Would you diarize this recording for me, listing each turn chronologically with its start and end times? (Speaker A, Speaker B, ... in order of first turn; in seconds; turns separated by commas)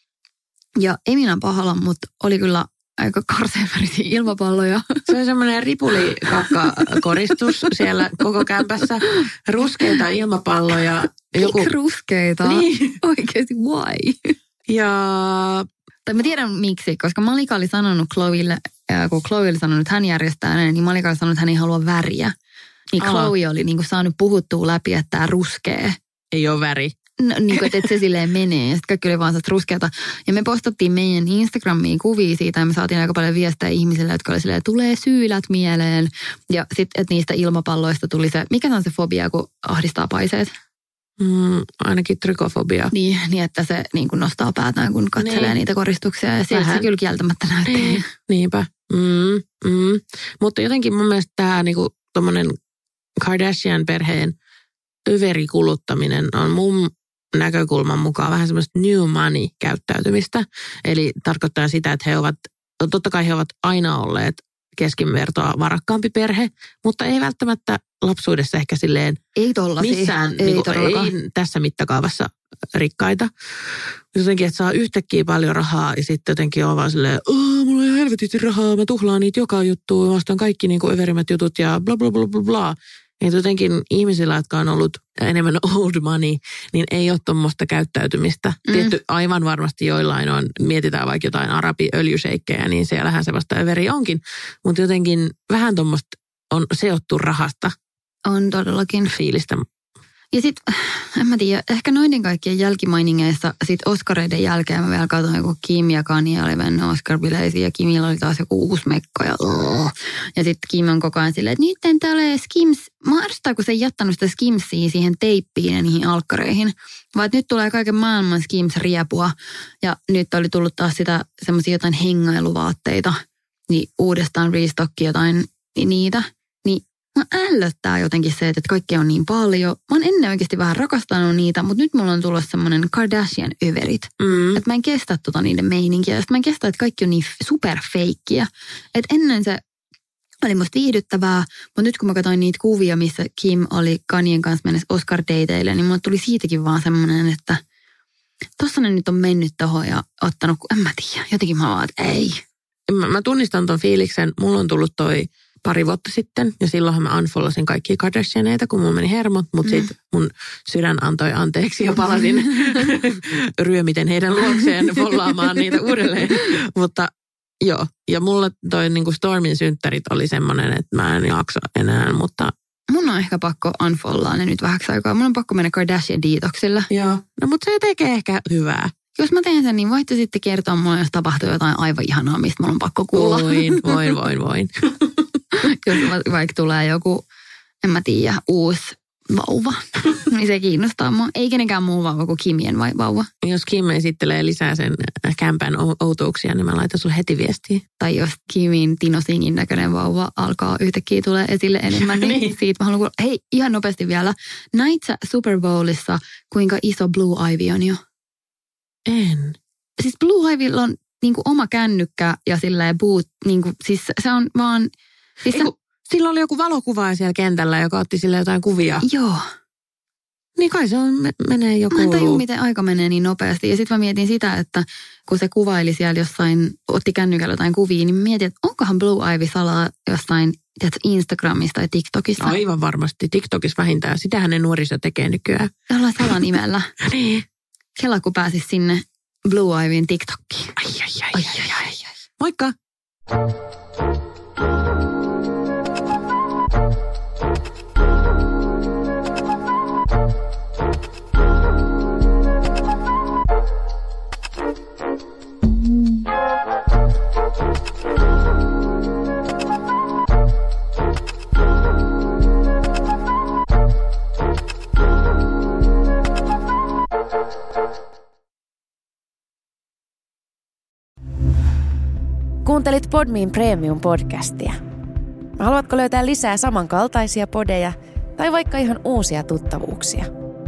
Speaker A: 0.8-5.0, Speaker B: 5.1-11.7, Speaker A: 6.2-7.7, Speaker A: 11.4-14.3, Speaker B: 12.4-13.0, Speaker B: 14.7-15.7, Speaker A: 16.1-22.3, Speaker A: 22.9-25.9, Speaker B: 23.0-23.3, Speaker B: 26.3-26.9, Speaker A: 27.2-40.5, Speaker B: 41.2-42.9, Speaker A: 42.9-48.1, Speaker B: 45.2-45.6, Speaker B: 46.5-46.9, Speaker B: 47.7-52.5, Speaker B: 53.2-54.3, Speaker B: 55.1-69.2, Speaker A: 69.3-71.1, Speaker B: 69.8-97.7, Speaker A: 88.7-88.9, Speaker A: 98.2-99.1, Speaker B: 99.1-99.6, Speaker A: 100.3-123.2, Speaker A: 123.7-139.6, Speaker B: 134.2-134.6, Speaker A: 140.4-147.6, Speaker A: 148.6-152.4, Speaker B: 152.9-172.5, Speaker A: 159.6-159.9, Speaker A: 172.9-176.9, Speaker B: 176.9-178.9, Speaker A: 179.2-184.0, Speaker B: 183.1-185.1, Speaker A: 185.6-187.2, Speaker A: 187.8-193.3, Speaker B: 193.4-197.8, Speaker A: 198.0-208.0, Speaker B: 201.9-202.5, Speaker B: 209.1-209.6, Speaker A: 210.0-214.9, Speaker A: 215.4-215.7, Speaker B: 215.5-219.0, Speaker A: 219.0-219.4, Speaker B: 220.6-222.4, Speaker A: 221.9-232.6, Speaker B: 232.4-236.3, Speaker A: 235.9-236.9, Speaker B: 237.0-237.4, Speaker A: 238.0-240.8, Speaker B: 240.8-241.8, Speaker A: 241.3-242.1, Speaker B: 242.4-242.7, Speaker C: 272.6-274.8, Speaker C: 275.6-280.3